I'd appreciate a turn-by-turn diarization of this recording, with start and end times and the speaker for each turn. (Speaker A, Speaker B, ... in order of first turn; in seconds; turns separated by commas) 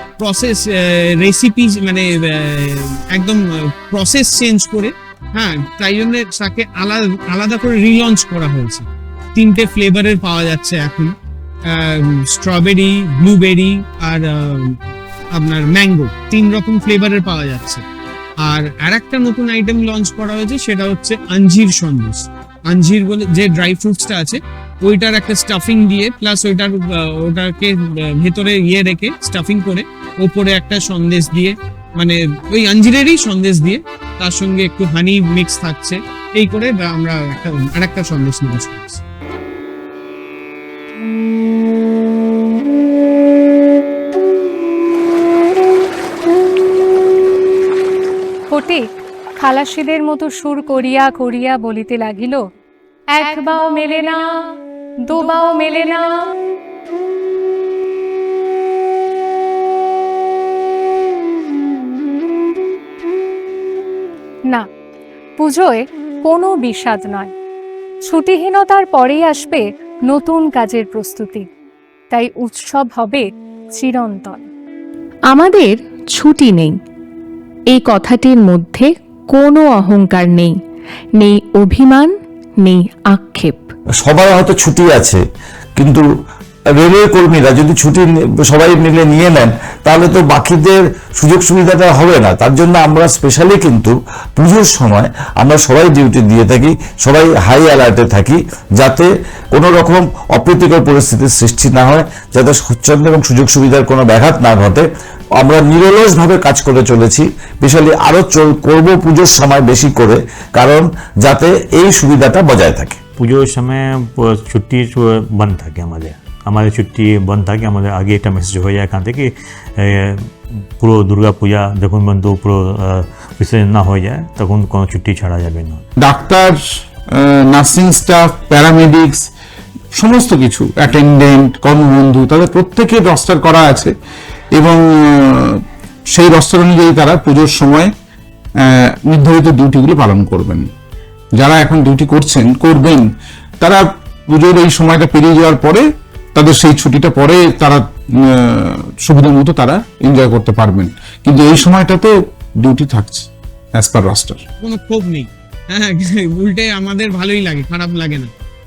Speaker A: 0.2-11.1, Speaker A: 11.7-14.8, Speaker A: 15.3-17.8, Speaker A: 18.4-39.0, Speaker B: 48.5-48.8, Speaker B: 49.4-52.4, Speaker B: 53.1-54.3, Speaker B: 55.1-56.2, Speaker B: 65.4-67.3, Speaker B: 68.1-71.5, Speaker B: 72.1-74.5, Speaker C: 75.3-76.8, Speaker C: 77.7-80.6, Speaker C: 81.2-83.7, Speaker D: 84.0-85.2, Speaker D: 85.8-86.1, Speaker D: 86.8-104.9, Speaker D: 105.4-113.0, Speaker E: 113.2-125.8, Speaker F: 126.0-126.6, Speaker F: 127.1-129.3, Speaker F: 129.9-133.9, Speaker F: 134.5-137.9, Speaker F: 138.6-140.7, Speaker F: 141.4-143.0, Speaker F: 143.6-145.8, Speaker F: 146.3-154.4, Speaker A: 154.6-158.3